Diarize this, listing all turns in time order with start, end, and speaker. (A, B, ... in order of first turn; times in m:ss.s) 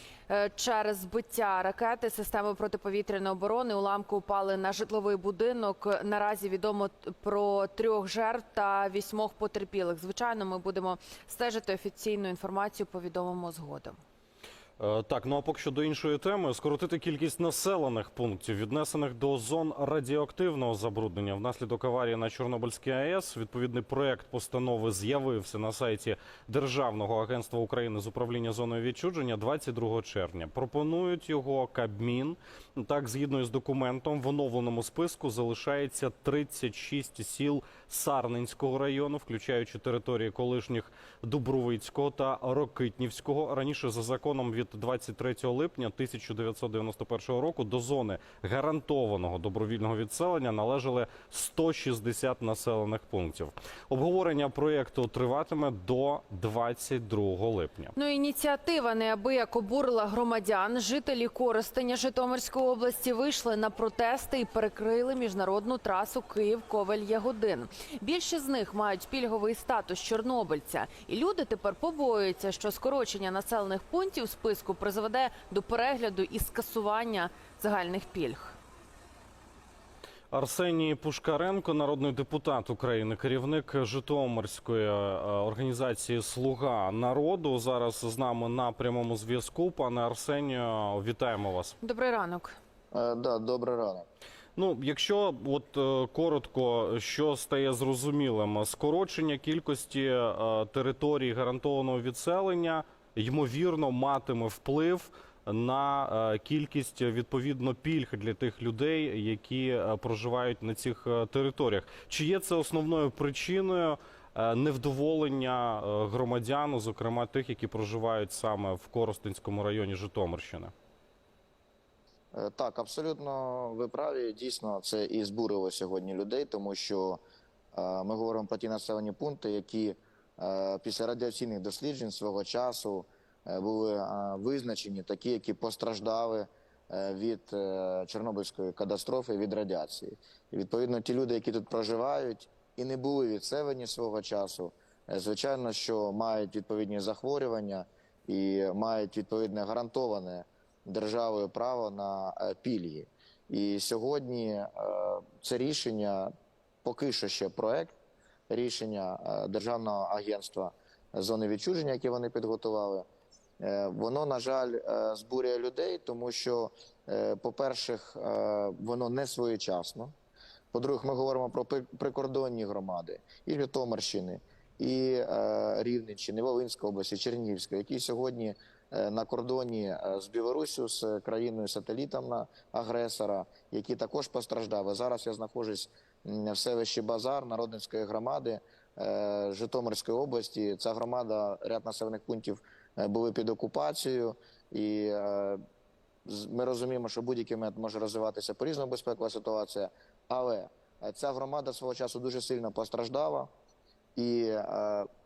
0:00.3-0:14.0 A
0:14.8-0:57.9 B
0:58.0-1:18.6 A
1:20.3-1:31.8 B
1:31.8-1:32.6 A
1:32.9-1:34.1 C
1:34.6-2:00.7 B
2:02.3-2:07.2 C
2:07.7-2:36.3 C
2:36.8-2:38.0 C
2:38.5-2:43.1 C
2:43.6-2:50.1 C
2:50.7-3:15.6 C
3:16.3-3:23.5 C
3:24.2-3:25.1 C